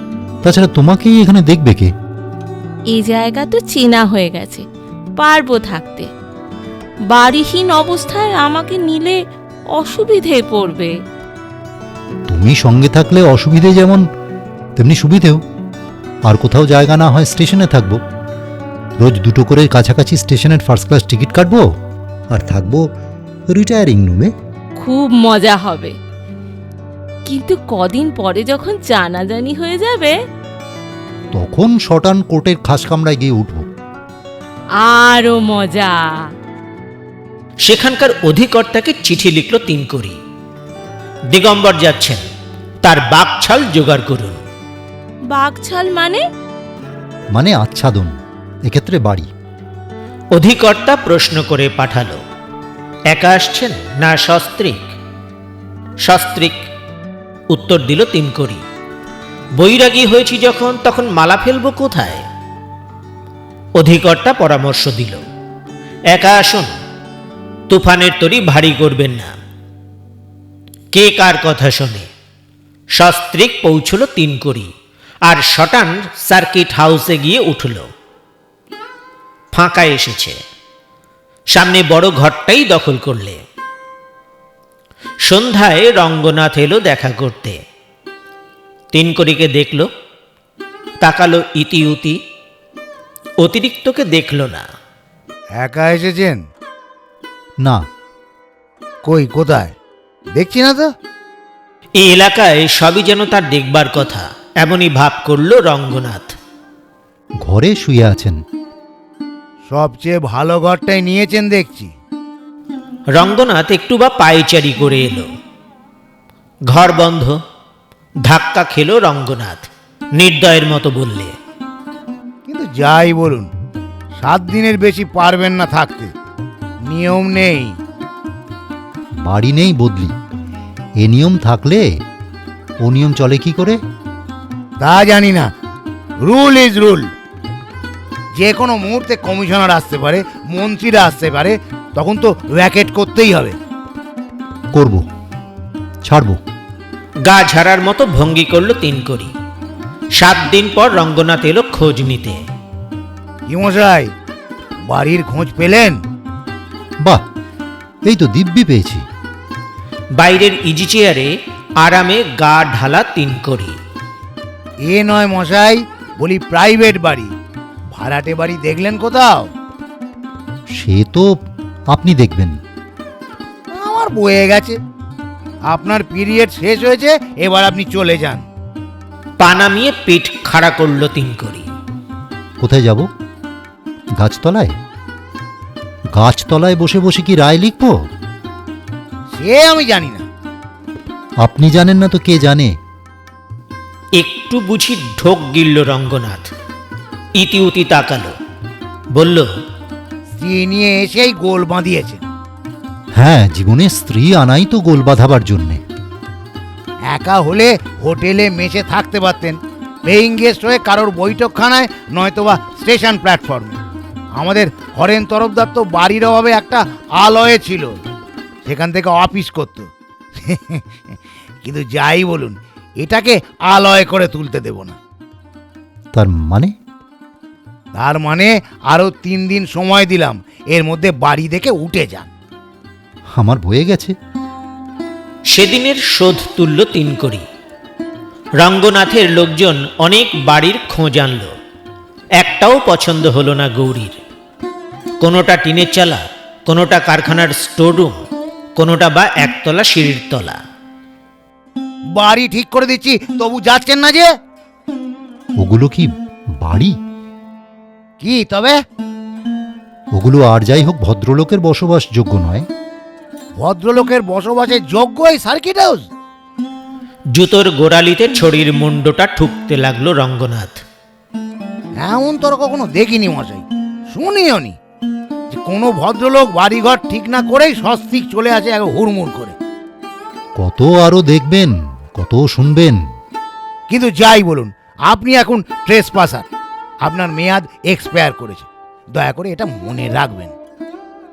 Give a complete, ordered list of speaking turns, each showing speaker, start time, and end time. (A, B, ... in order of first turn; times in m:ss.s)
0:00.4-0:01.9 A
0:02.9-0:04.6 B
0:05.2-0:06.1 B
0:07.1-0:09.2 B
0:09.8-0:10.9 B
0:12.3-0:14.0 A
0:14.8-0:15.4 A
0:16.2-0:18.0 A
0:19.0-0:21.7 A
0:22.3-0:22.9 A
0:23.5-0:24.3 A
0:24.8-0:26.0 B
0:27.3-0:30.1 B
0:31.3-0:33.7 A
0:34.8-0:36.0 B
0:37.6-0:40.2 C
0:41.3-0:42.2 C
0:42.8-0:44.4 C
0:45.3-0:46.2 B
0:47.3-0:49.3 A
0:50.3-0:52.2 C
0:53.1-0:54.9 C
0:56.0-0:56.6 C
0:57.5-0:58.6 C
0:59.6-1:02.2 C
1:03.8-1:05.2 C
1:06.1-1:06.7 C
1:07.7-1:09.4 C
1:10.9-1:12.1 C
1:13.0-1:14.7 C
1:15.2-1:17.9 C
1:19.5-1:20.4 C
1:21.5-1:23.4 C
1:25.2-1:27.6 C
1:28.9-1:29.9 C
1:31.0-1:32.2 C
1:33.4-1:34.7 C
1:35.5-1:36.4 D
1:39.0-1:39.7 D
1:40.3-1:40.9 D
1:42.0-1:46.3 C
1:47.4-1:48.4 A
1:49.6-1:51.9 D
1:53.2-1:55.3 C
1:56.7-1:57.4 C
1:58.2-2:01.4 C
2:02.4-2:03.5 D
2:04.2-2:06.1 D
2:06.8-2:07.8 D
2:09.2-2:10.1 A
2:11.0-2:11.9 A
2:12.8-2:13.8 A
2:14.8-2:15.5 D
2:16.2-2:17.1 D
2:18.4-2:23.6 D
2:24.7-2:25.0 A
2:26.0-2:26.4 A
2:27.2-2:29.3 C
2:30.2-2:32.4 C
2:33.5-2:34.1 D
2:34.9-2:36.0 D
2:38.0-2:39.0 A
2:40.1-2:43.8 C
2:44.8-2:47.3 D
2:47.9-2:49.5 D
2:50.8-2:51.3 A
2:51.9-2:52.6 A
2:53.7-2:54.8 D
2:55.6-2:58.4 D
2:59.4-3:01.7 C
3:02.6-3:03.1 A
3:04.2-3:04.7 A
3:06.1-3:08.0 A
3:09.3-3:10.2 D
3:11.4-3:12.7 A
3:14.2-3:16.5 C
3:17.4-3:18.3 C
3:19.1-3:19.5 C
3:20.4-3:22.2 D
3:23.2-3:25.8 A
3:27.1-3:33.8 D
3:34.4-3:37.9 D
3:38.6-3:39.9 D
3:40.4-3:40.8 D
3:41.6-3:45.0 D
3:46.1-3:46.7 A
3:47.9-3:52.3 D
3:53.3-3:54.1 A
3:55.5-3:57.4 C
3:58.6-4:01.5 C
4:02.4-4:04.2 C
4:05.2-4:08.2 C
4:08.8-4:10.6 C
4:12.1-4:14.3 D
4:15.6-4:16.9 A
4:18.2-4:18.8 D
4:20.1-4:22.7 A
4:23.6-4:26.0 D
4:27.3-4:30.8 C
4:32.0-4:34.8 D
4:35.5-4:39.5 D
4:40.6-4:43.0 A
4:43.9-4:46.4 D
4:47.0-4:50.5 D